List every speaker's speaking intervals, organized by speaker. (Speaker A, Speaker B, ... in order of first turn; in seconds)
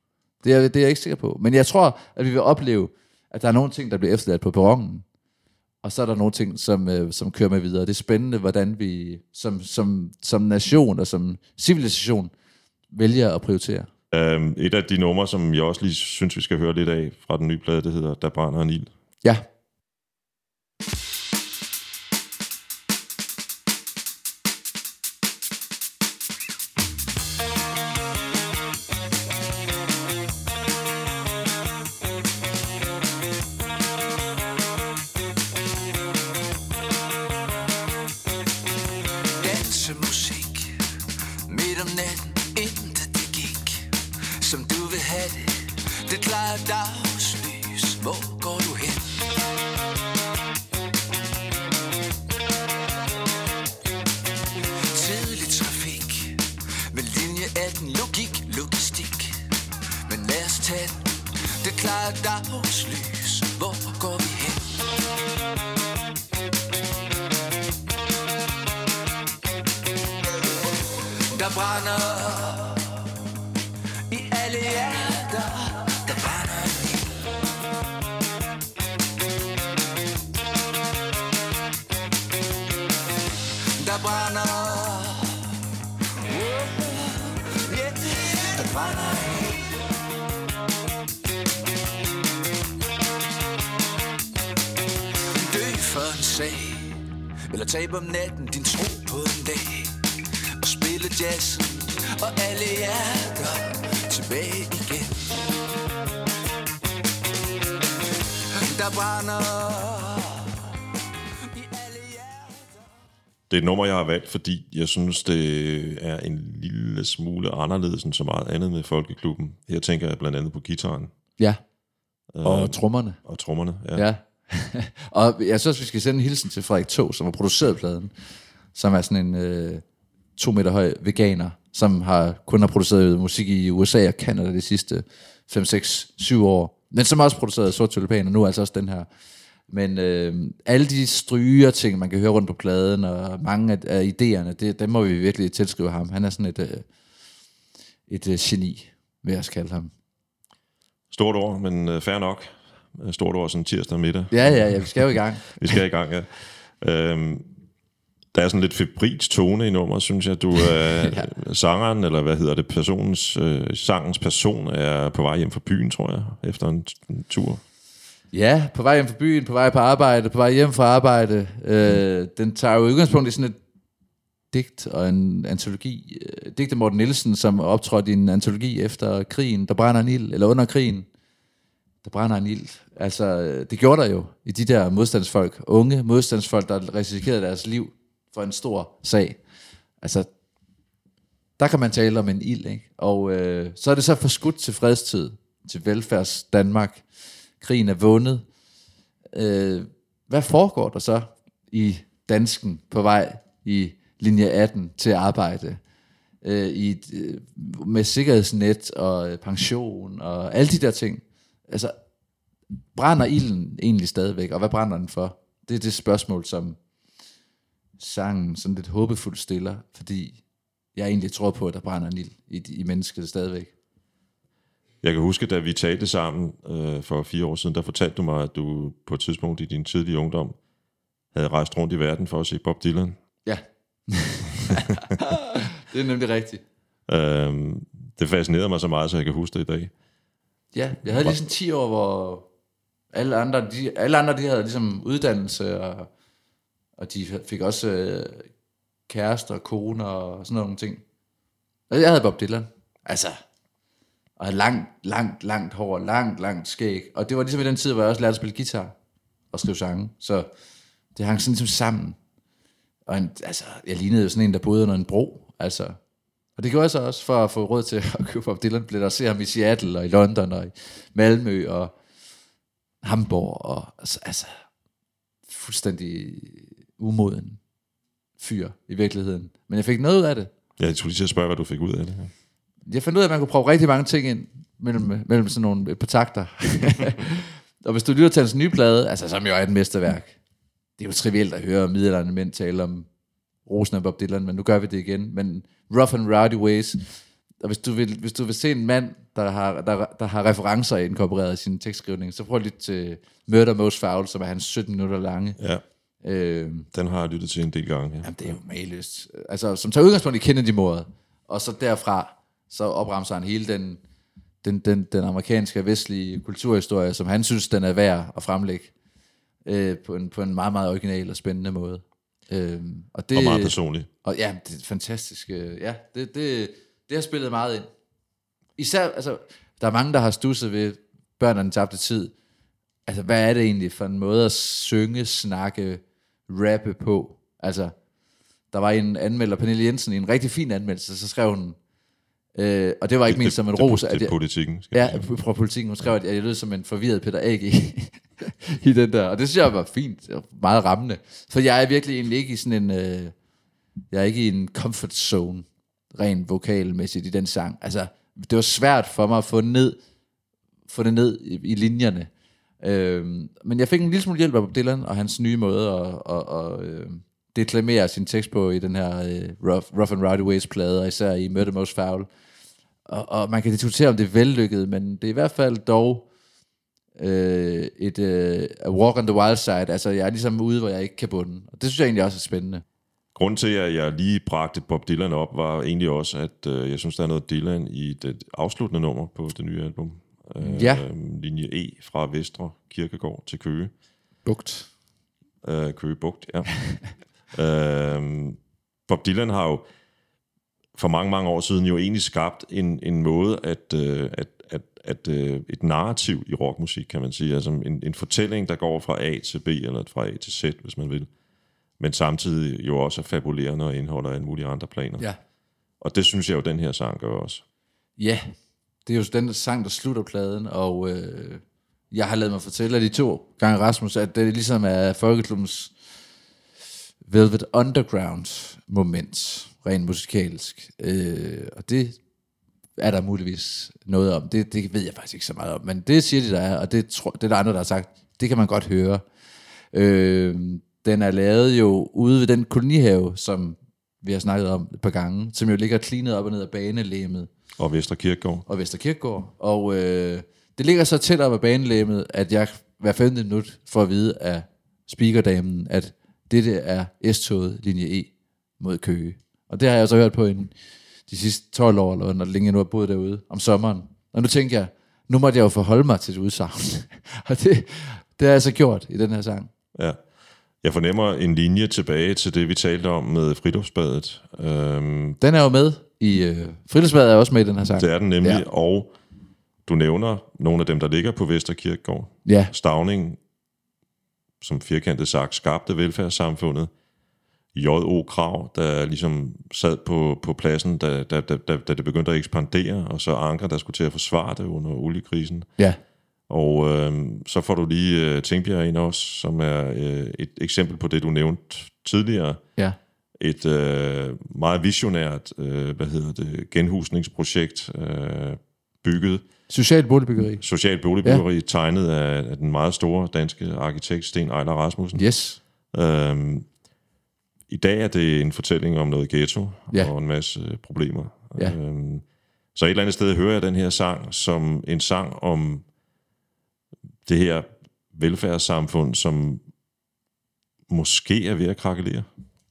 Speaker A: 0.4-5.0, 5.8-12.3, 12.9-13.9, 122.4-123.2, 124.0-128.1, 128.7-129.8, 130.4-139.1, 139.7-146.9, 148.1-149.9, 154.3-155.7, 161.0-161.3, 168.3-173.6, 174.5-181.1, 182.0-189.4, 190.0-190.3, 191.6-197.0, 197.6-198.4, 199.3-205.8, 206.4-212.0, 212.9-216.8, 218.0-220.4, 220.9-223.7, 233.5-236.6, 240.7-242.5, 243.1-246.1, 247.0-248.5, 249.1-251.0, 251.9-253.4, 254.4-258.9, 259.5-260.5, 261.1-262.2, 263.1-266.0, 266.6-271.9, 273.0-274.6, 275.5-277.6, 278.4-280.5, 282.9-290.4, 291.0-293.1, 293.7-297.0, 297.6-305.6, 306.2-306.9, 308.2-314.0, 314.6-318.9, 319.6-327.9, 328.8-332.3, 333.1-337.9, 338.7-341.8, 342.6-344.3, 344.9-353.3, 354.1-360.0, 360.9-362.3, 362.8-372.3, 373.1-376.3, 377.2-382.8, 390.6-391.0, 394.5-394.9, 418.2-418.5, 419.1-425.9, 427.2-432.2, 433.0-439.2, 439.9-447.5, 448.7-460.7, 461.3-469.7, 475.4-478.6, 482.4-482.7, 509.7-510.6, 515.2-515.6
Speaker B: 14.1-18.9, 113.5-121.1, 122.3-124.1, 151.1-157.5, 158.3-167.6, 225.0-230.6, 231.3-233.2, 237.1-239.9, 280.8-282.3, 306.9-308.6, 323.3-324.1, 343.3-345.4, 383.4-393.9, 395.6-396.7, 397.5-399.9, 400.9-411.3, 412.0-415.3, 416.0-417.6, 447.8-448.6, 470.8-475.4, 478.0-479.1, 479.9-483.4, 484.6-486.9, 487.7-495.7, 496.5-502.6, 503.4-509.4, 510.6-515.2, 515.9-516.7, 517.7-522.2, 522.8-525.9, 527.3-529.6, 530.9-532.3
Speaker C: 39.4-40.8, 41.5-49.2, 54.9-59.4, 60.1-64.8, 71.3-73.1, 74.1-77.2, 83.8-85.5, 86.2-89.9, 95.4-105.4, 108.4-110.7, 111.5-112.8